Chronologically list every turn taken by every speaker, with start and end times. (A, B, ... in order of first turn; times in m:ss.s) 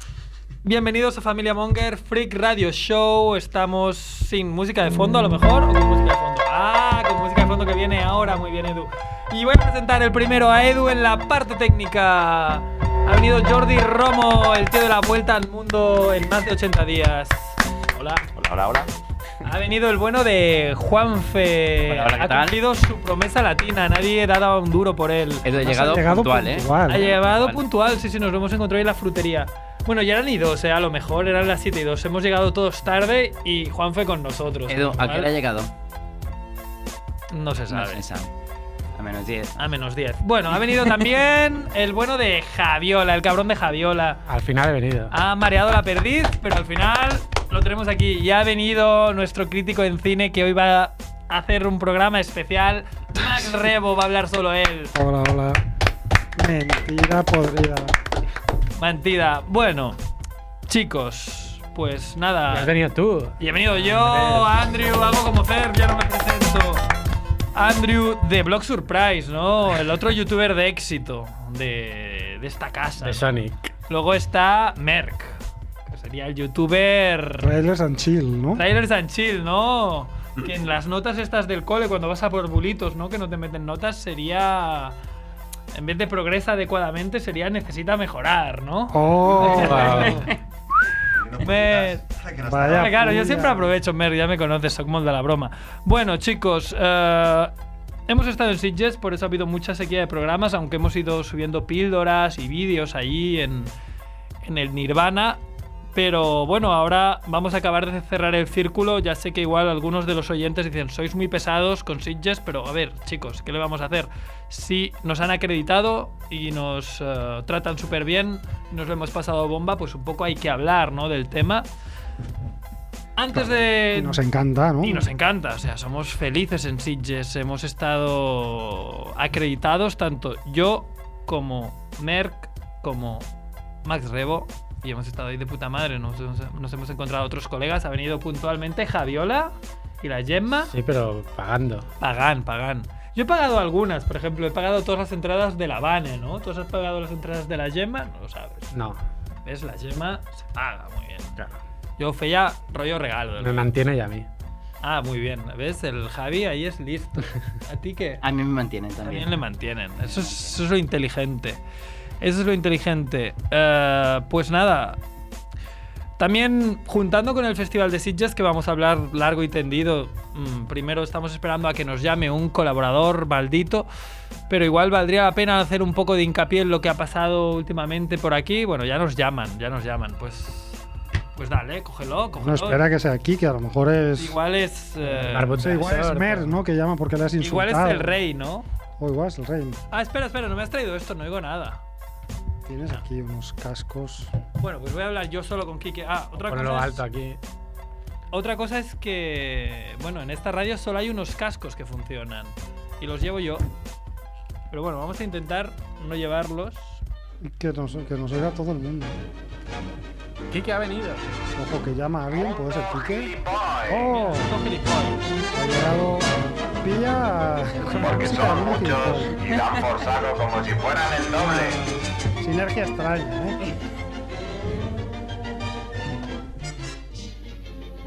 0:00.6-0:18.3 A
0:18.4-0:18.9 B
0:19.4-0:25.4 A
0:21.9-0:22.6 C
0:25.4-0:27.6 C
0:25.6-0:27.2 D
0:26.9-0:35.3 A
0:34.7-0:35.7 C
0:37.3-0:38.0 A
0:37.7-0:38.3 C
0:38.9-0:39.6 C
0:39.6-0:44.2 A
0:44.2-0:45.1 E
0:45.1-0:54.9 A
0:54.9-0:55.6 D
0:56.4-0:58.0 D
0:58.8-1:00.0 A
1:00.7-1:02.7 A
1:02.5-1:04.5 E
1:03.4-1:06.8 A
1:07.5-1:13.2 A
1:13.0-1:13.6 E
1:13.9-1:17.5 A
1:17.4-1:18.6 D
1:18.5-1:24.9 A
1:25.7-1:30.3 A
1:28.9-1:30.0 D
1:29.6-1:30.2 E
1:29.8-1:30.4 C
1:31.1-1:32.9 B
1:31.4-1:32.0 A
1:32.4-1:33.7 D
1:32.6-1:37.5 A
1:38.1-1:43.7 A
1:44.4-1:45.4 A
1:45.9-2:01.6 A
2:03.2-2:04.2 A
2:03.3-2:05.1 D
2:04.8-2:13.3 A
2:13.8-2:20.7 A
2:20.6-2:21.8 E
2:22.0-2:28.7 A
2:28.7-2:29.0 E
2:29.4-2:31.4 A
2:32.0-2:33.7 A
2:33.4-2:34.3 E
2:34.8-2:38.2 A
2:38.2-2:39.4 C
2:39.0-2:41.6 A
2:40.0-2:40.5 C
2:42.2-2:45.0 A
2:46.2-2:53.9 A
2:54.5-3:00.8 A
3:01.3-3:02.8 A
3:02.4-3:04.4 D
3:04.2-3:05.9 A
3:05.0-3:06.6 E
3:05.6-3:08.1 D
3:07.4-3:08.6 A
3:09.0-3:09.8 D
3:09.9-3:11.8 A
3:12.6-3:14.3 D
3:14.6-3:17.0 A
3:16.4-3:17.4 E
3:18.3-3:23.6 A
3:24.7-3:27.0 A
3:27.4-3:29.2 D
3:30.5-3:31.2 E
3:31.6-3:33.3 D
3:32.5-3:34.0 F
3:33.8-3:34.6 D
3:34.0-3:35.2 A
3:35.5-3:39.4 D
3:38.0-3:41.8 F
3:41.3-3:43.6 D